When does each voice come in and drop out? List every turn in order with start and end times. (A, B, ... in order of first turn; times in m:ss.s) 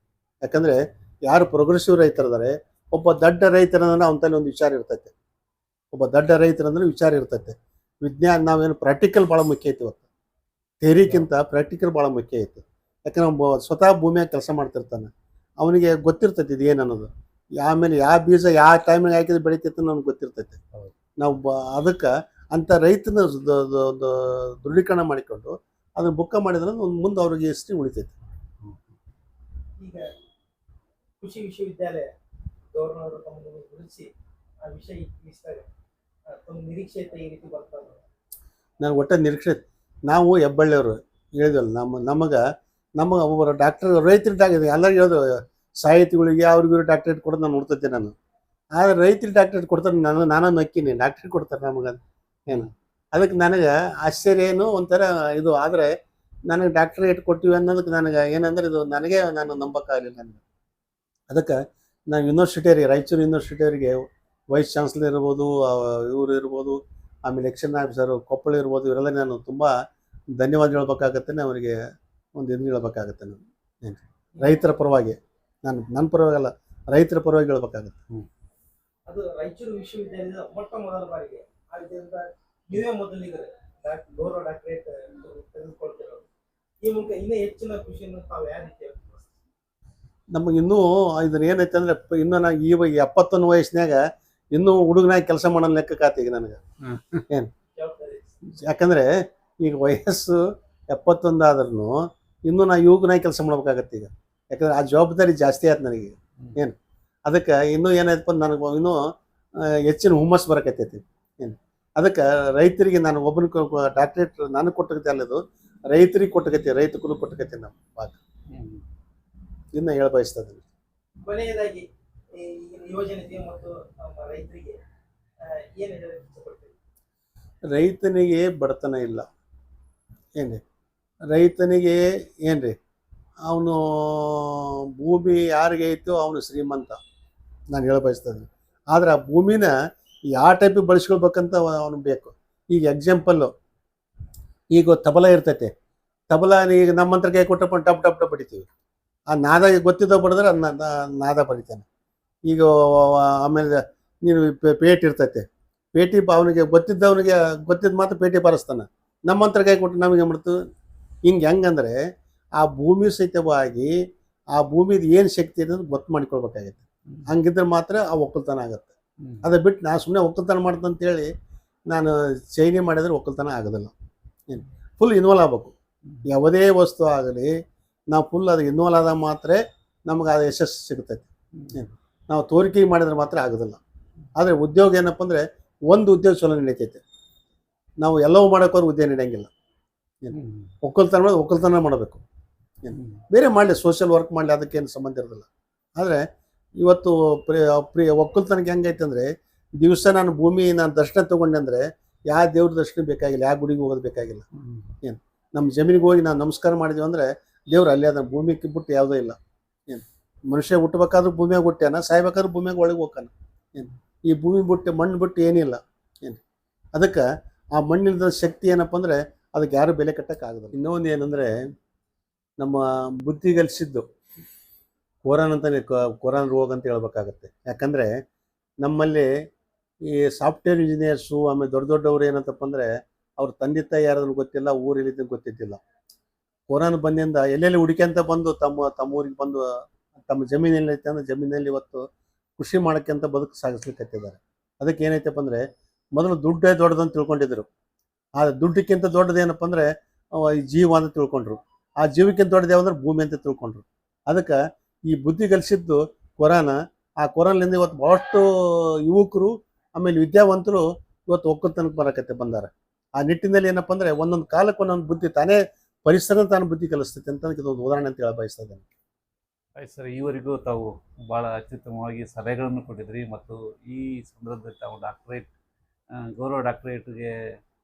0:00.4-0:05.1 A
0:05.9-0:10.1 A
0:10.8-0:20.6 A
0:21.2-0:28.2 A
0:28.6-0:29.0 B
0:29.8-0:30.1 C
0:31.2-0:32.1 C
0:32.7-0:34.1 C
0:34.6-0:35.7 C
0:36.3-0:38.0 C
0:38.8-0:42.4 A
0:43.0-0:48.1 A
0:48.8-0:52.0 A
0:52.5-0:55.9 A
0:56.5-1:00.4 A
1:01.3-1:09.7 A
1:10.4-1:11.8 A
1:12.4-1:18.0 A
1:14.4-1:14.7 C
1:19.1-1:26.2 C
1:26.8-1:29.3 C
1:30.3-1:34.0 A
1:34.5-1:36.6 A
1:36.8-1:37.3 B
1:37.7-1:38.5 C
1:38.5-1:40.4 A
1:40.9-1:46.8 A
1:47.3-1:49.0 A
1:49.6-1:58.2 A
1:58.5-1:58.8 B
1:59.7-2:00.6 A
2:01.2-2:04.8 C
2:05.4-2:06.8 C
2:07.7-2:09.3 A
2:11.3-2:12.8 A
2:13.5-2:17.0 A
2:17.7-2:19.7 A
2:20.3-2:23.5 A
2:24.7-2:25.7 A
2:26.3-2:28.7 A
2:29.3-2:31.9 A
2:32.5-2:35.4 A
2:36.0-2:40.6 A
2:41.3-2:42.0 A
2:42.6-2:43.9 A
2:44.5-2:51.3 A
2:49.2-2:49.5 B
2:51.9-2:53.9 A
2:54.5-2:55.8 A
2:56.3-2:57.5 A
2:58.1-3:03.8 A
3:01.5-3:01.8 B
3:04.4-3:07.0 A
3:08.0-3:09.5 A
3:10.2-3:12.2 A
3:10.3-3:10.7 B
3:12.8-3:15.5 A
3:12.9-3:13.2 B
3:16.8-3:24.5 A
3:24.6-3:24.9 B
3:25.0-3:36.4 A
3:37.0-3:41.5 A
3:42.6-3:44.1 A
3:45.3-3:48.2 A
3:48.8-3:49.3 A
3:50.0-3:55.8 A
3:56.7-3:59.7 A
4:00.3-4:02.0 A
4:02.6-4:05.6 A
4:06.2-4:07.7 A
4:08.4-4:28.9 A
4:29.8-4:35.5 B
4:36.2-4:37.4 B